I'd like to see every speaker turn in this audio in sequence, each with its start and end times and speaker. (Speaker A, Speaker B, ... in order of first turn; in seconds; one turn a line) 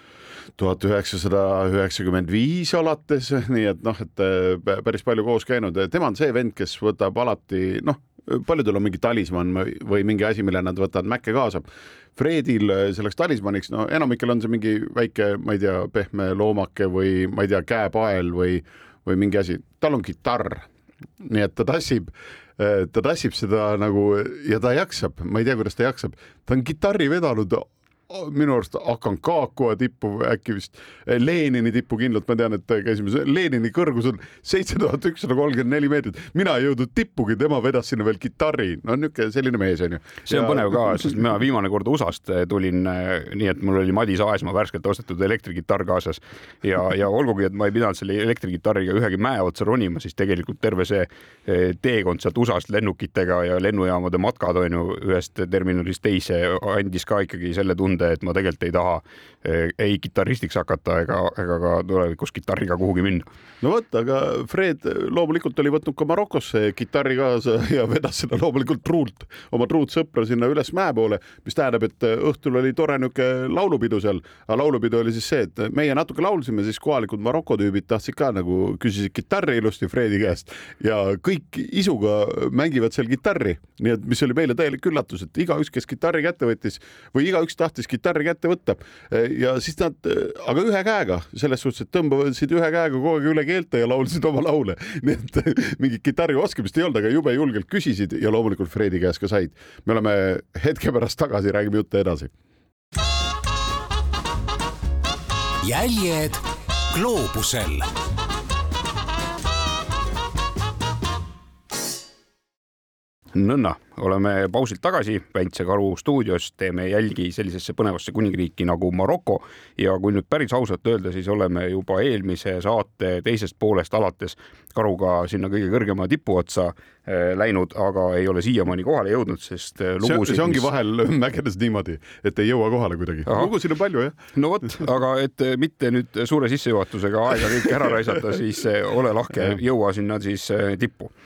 Speaker A: 0.6-11.6
Speaker A: 12.2-20.6
Speaker A: 21.2-41.0
Speaker B: 40.2-63.3
Speaker A: 63.6-102.3
Speaker C: 105.6-107.9
Speaker B: 113.3-130.7
Speaker A: 130.0-134.2
Speaker B: 133.2-133.5
Speaker B: 134.3-141.1